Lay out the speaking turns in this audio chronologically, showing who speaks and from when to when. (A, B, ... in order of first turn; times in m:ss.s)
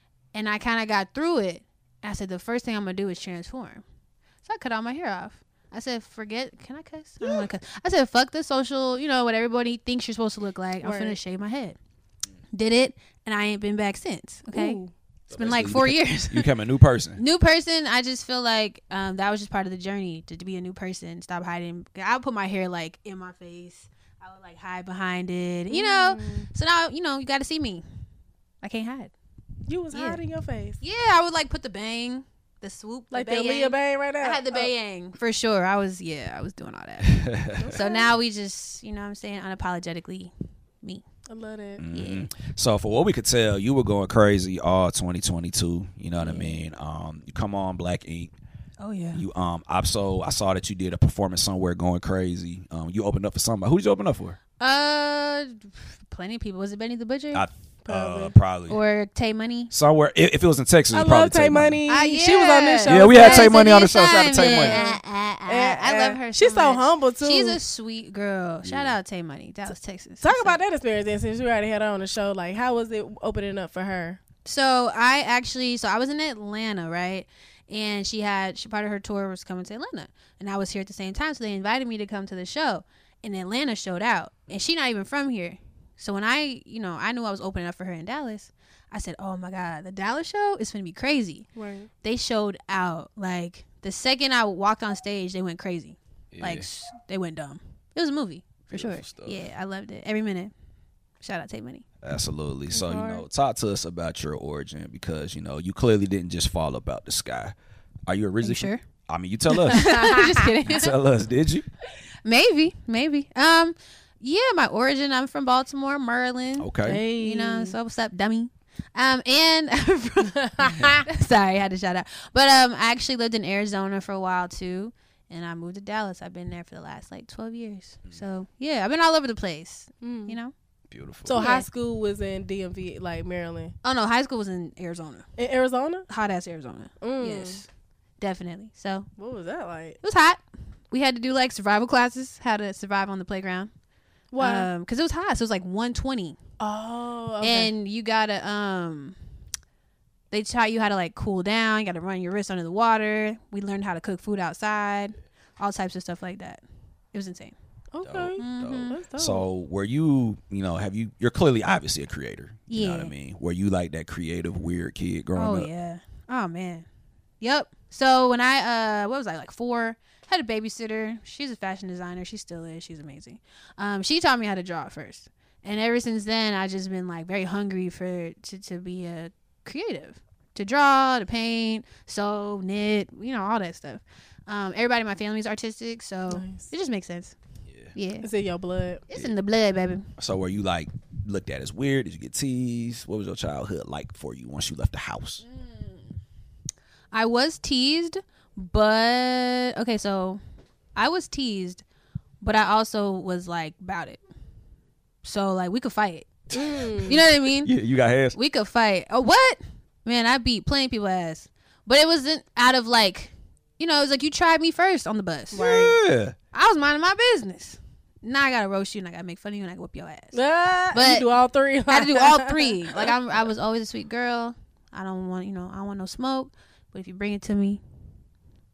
0:00.3-0:03.8 A
0:04.4-0:11.8 A
0:10.8-0:11.2 B
0:12.5-0:14.8 A
0:14.5-0:14.9 B
0:15.3-0:17.2 C
0:15.3-0:16.5 A
0:17.2-0:27.8 A
0:25.7-0:26.5 B
0:28.6-0:29.1 A
0:29.7-0:30.8 B
0:29.9-0:30.2 A
0:30.8-0:40.3 A
0:33.1-0:34.7 B
0:37.0-0:37.8 C
0:37.6-0:38.1 B
0:41.3-0:41.8 B
0:41.8-0:48.3 C
0:41.9-0:42.3 A
0:46.2-0:46.6 A
0:48.8-0:49.2 A
0:49.1-0:54.4 C
0:54.6-0:57.4 A
0:57.3-0:58.8 C
0:57.9-0:58.3 B
0:58.7-0:59.7 A
0:59.7-1:01.8 C
1:00.9-1:03.5 B
1:01.9-1:10.6 A
1:02.8-1:04.8 C
1:04.5-1:07.6 B
1:08.6-1:09.0 C
1:10.2-1:14.2 B
1:14.4-1:31.5 A
1:31.6-1:31.9 B
1:32.0-1:40.5 A
1:36.3-1:36.7 C
1:38.7-1:39.4 C
1:41.2-1:41.8 A
1:42.0-1:47.5 C
1:42.7-1:43.2 B
1:48.1-1:50.1 C
1:48.4-1:48.8 A
1:49.7-1:50.9 A
1:49.7-1:50.3 B
1:50.7-1:51.7 C
1:52.2-2:10.5 A
1:56.6-1:57.0 C
1:56.8-1:57.8 B
2:00.4-2:01.0 B
2:10.0-2:10.4 B
2:10.9-2:11.4 C
2:11.2-2:13.8 B
2:11.4-2:11.7 A
2:13.8-2:15.2 A
2:15.4-2:16.1 B
2:16.1-2:17.7 A
2:17.0-2:17.6 B
2:18.2-2:19.1 A
2:19.2-2:20.0 B
2:20.0-2:23.7 A
2:24.3-2:24.7 B
2:24.4-2:26.4 A
2:26.6-2:27.7 B
2:27.4-2:29.2 A
2:30.3-2:37.6 A
2:37.9-2:39.4 B
2:38.0-2:45.7 C
2:38.4-2:39.0 A
2:42.7-2:43.1 A
2:45.4-2:46.8 A
2:47.4-3:07.4 A
3:06.3-3:06.7 B
3:07.9-3:08.3 A
3:08.2-3:09.0 B
3:09.1-3:10.1 A
3:10.2-3:15.4 C
3:15.4-3:16.2 A
3:17.1-3:20.4 A
3:21.0-3:21.8 A
3:22.4-3:24.2 A
3:25.2-3:26.3 A
3:26.5-3:27.2 B
3:27.0-3:27.7 A
3:27.5-3:28.4 C
3:28.3-3:35.6 A
3:35.5-3:36.0 B
3:35.6-3:36.4 C
3:36.5-3:40.4 A
3:40.3-3:43.1 B
3:40.9-3:41.3 A
3:41.9-3:47.8 A